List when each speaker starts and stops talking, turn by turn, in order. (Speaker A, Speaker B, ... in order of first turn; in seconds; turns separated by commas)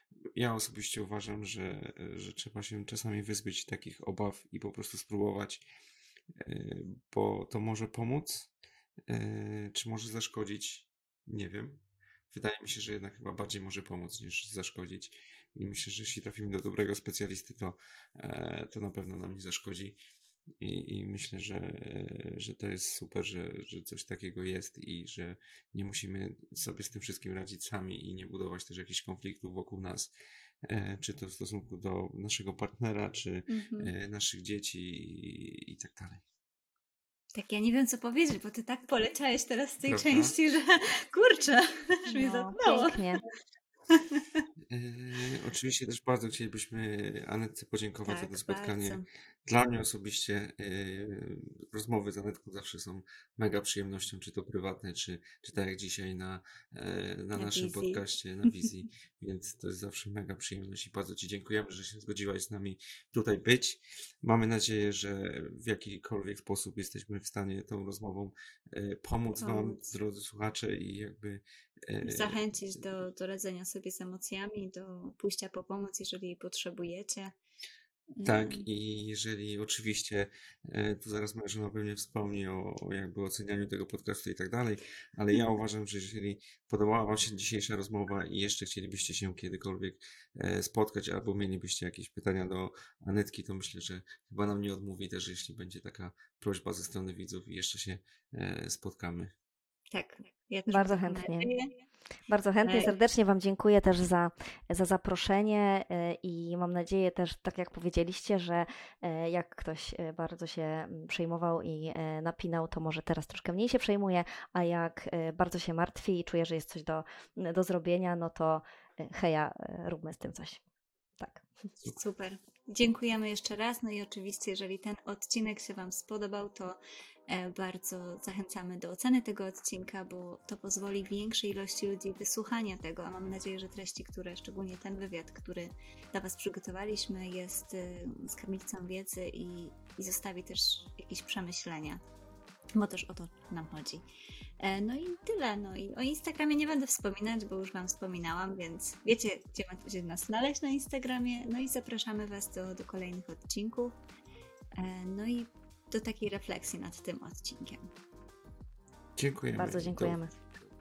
Speaker A: 0.3-5.6, Speaker A: 6.4-8.5, Speaker A: 9.1-20.0, Speaker A: 20.6-30.1, Speaker A: 30.6-36.2, Speaker B: 33.5-33.9, Speaker B: 37.3-43.0, Speaker A: 39.9-40.3, Speaker C: 42.1-43.2, Speaker B: 43.9-44.4, Speaker A: 44.7-72.8, Speaker B: 48.1-49.0, Speaker B: 57.3-58.7, Speaker B: 69.4-69.8, Speaker B: 72.0-77.3, Speaker B: 78.1-78.6, Speaker A: 78.2-99.3, Speaker B: 99.9-101.8, Speaker C: 100.7-101.5, Speaker C: 102.3-120.6, Speaker B: 102.6-102.9, Speaker C: 121.2-121.5, Speaker B: 121.9-126.8, Speaker B: 127.3-142.0, Speaker B: 142.7-144.1, Speaker B: 144.6-153.9, Speaker B: 154.7-157.9, Speaker A: 159.2-160.2, Speaker C: 159.5-160.3